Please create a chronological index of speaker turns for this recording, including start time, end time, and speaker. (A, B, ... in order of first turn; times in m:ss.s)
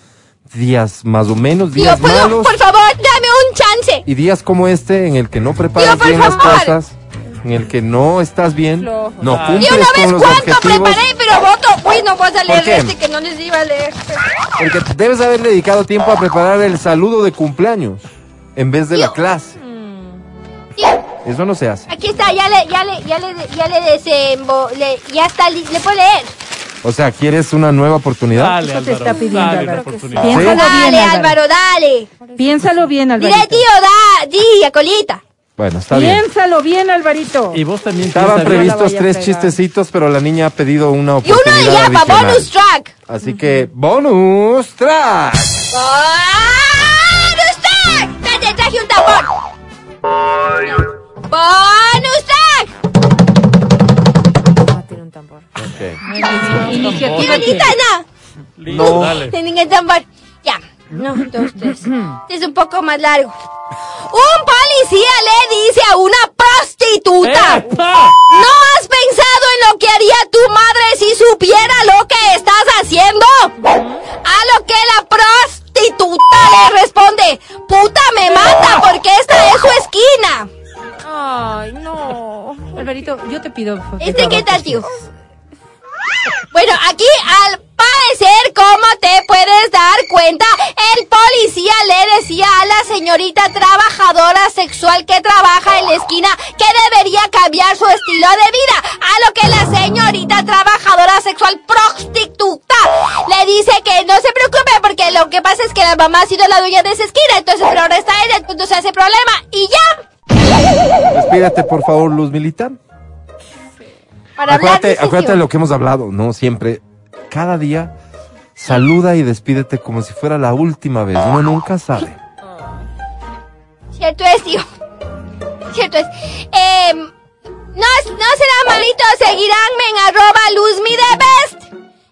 0:00.5-0:02.6 A
0:01.8-0:04.0 B
0:04.1-0:11.0 A
0:05.8-0:06.8 B
0:09.2-0:09.8 C
0:09.6-0:14.2 B
0:12.5-0:13.0 A
0:14.6-0:19.6 A
0:19.6-0:20.2 D
0:21.2-0:21.9 A
0:21.9-0:26.3 B
0:26.8-0:28.6 A
0:28.3-0:30.4 C
0:28.6-0:31.4 E
0:29.0-0:31.0 D
0:30.3-0:30.6 A
0:30.4-0:32.1 B
0:32.2-0:32.9 D
0:32.4-0:33.7 E
0:33.2-0:35.2 B
0:35.6-0:36.2 A
0:35.9-0:37.6 E
0:37.5-0:38.8 C
0:38.1-0:42.5 A
0:38.7-0:39.4 D
0:41.2-0:42.9 B
0:43.1-0:45.6 A
0:43.2-0:43.6 D
0:45.7-0:49.3 B
0:50.6-0:52.7 B
0:54.6-0:55.5 D
0:55.6-0:56.0 A
0:56.0-0:57.2 D
0:56.0-0:57.8 E
0:56.4-0:57.8 C
0:57.2-0:58.0 B
0:58.6-0:59.4 C
0:58.7-0:59.3 A
0:58.8-1:03.4 B
1:04.1-1:07.6 B
1:07.2-1:08.2 C
1:08.3-1:13.5 B
1:13.6-1:14.0 D
1:14.2-1:20.5 B
1:21.0-1:22.9 D
1:22.8-1:24.8 E
1:24.0-1:24.9 B
1:26.5-1:50.0 B
1:51.1-1:52.8 A
1:54.4-1:55.4 B
1:54.5-1:57.9 A
1:58.6-2:02.2 A
2:04.0-2:04.7 B
2:05.7-2:07.1 B
2:07.8-2:11.7 B